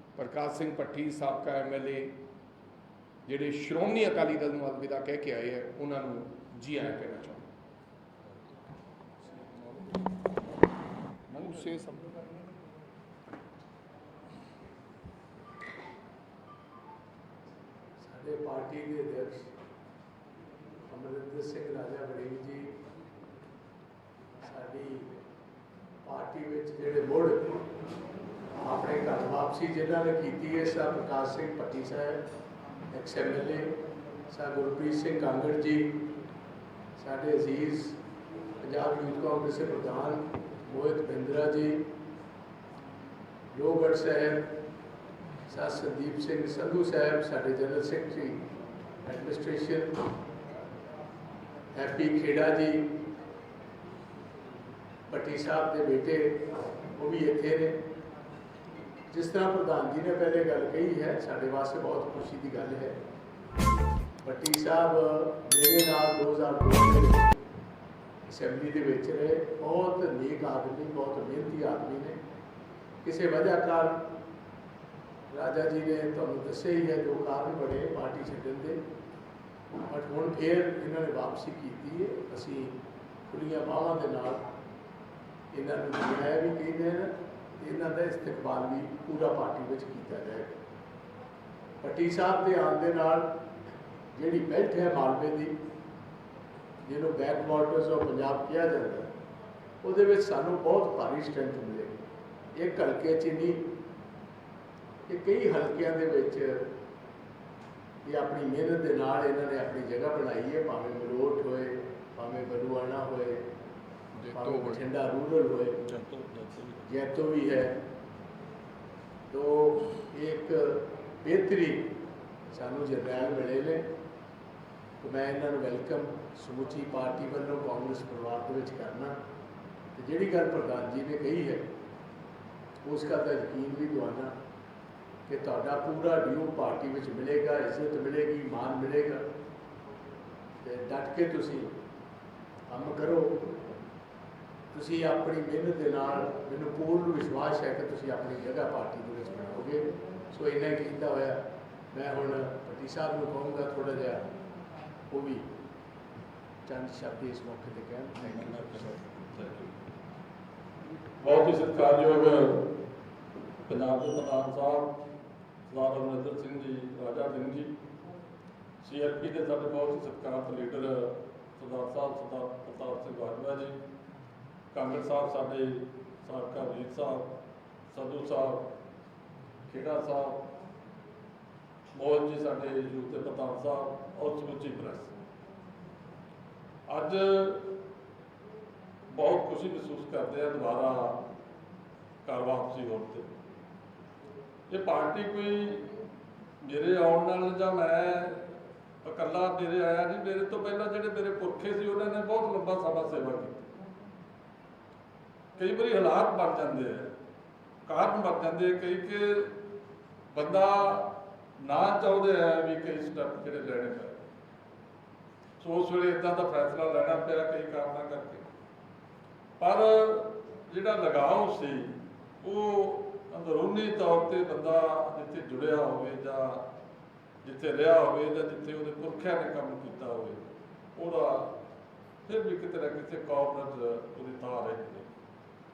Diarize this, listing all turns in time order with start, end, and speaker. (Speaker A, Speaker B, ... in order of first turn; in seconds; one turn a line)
Speaker A: 0.2-2.2
Speaker A: 3.2-7.5
Speaker B: 11.3-11.7
Speaker A: 11.3-12.1
Speaker C: 18.0-19.5
Speaker C: 20.9-22.8
Speaker C: 24.4-25.1
Speaker C: 26.0-27.5
Speaker C: 28.6-32.2
Speaker C: 32.9-33.7
Speaker C: 34.3-36.0
Speaker C: 37.0-38.0
Speaker C: 38.6-41.9
Speaker C: 43.5-44.5
Speaker C: 45.5-48.4
Speaker C: 49.0-49.9
Speaker C: 51.7-52.9
Speaker C: 55.1-57.8
Speaker C: 59.1-63.0
Speaker C: 64.2-67.3
Speaker C: 68.2-72.2
Speaker C: 73.0-74.1
Speaker C: 75.3-78.8
Speaker C: 79.9-84.5
Speaker C: 85.5-90.5
Speaker C: 91.8-93.4
Speaker C: 94.1-95.6
Speaker C: 96.8-99.1
Speaker C: 99.8-102.0
Speaker C: 102.5-103.7
Speaker C: 105.1-106.7
Speaker C: 108.0-113.5
Speaker A: 114.2-114.9
Speaker C: 114.3-115.8
Speaker B: 115.8-116.9
Speaker C: 116.9-117.8
Speaker C: 119.3-122.0
Speaker C: 122.5-123.9
Speaker C: 125.0-129.2
Speaker C: 129.9-131.7
Speaker C: 132.8-134.4
Speaker C: 135.2-139.2
Speaker C: 140.6-141.8
Speaker C: 142.7-143.6
Speaker C: 144.7-154.3
Speaker C: 155.1-155.5
Speaker C: 156.7-159.0
Speaker B: 158.2-159.8
Speaker B: 161.2-162.7
Speaker B: 163.7-165.0
Speaker B: 165.7-167.7
Speaker B: 168.8-173.8
Speaker B: 174.7-177.4
Speaker B: 177.9-178.7
Speaker B: 179.7-180.5
Speaker B: 181.9-185.1
Speaker B: 186.9-187.8
Speaker B: 189.1-191.3
Speaker B: 192.2-193.3
Speaker B: 194.7-195.9
Speaker B: 196.6-198.5
Speaker B: 199.0-203.7
Speaker B: 205.6-207.1
Speaker B: 207.9-209.6
Speaker B: 210.3-214.2
Speaker B: 215.6-218.5
Speaker B: 219.6-226.7
Speaker B: 227.4-230.4
Speaker B: 230.9-231.6
Speaker B: 232.2-235.1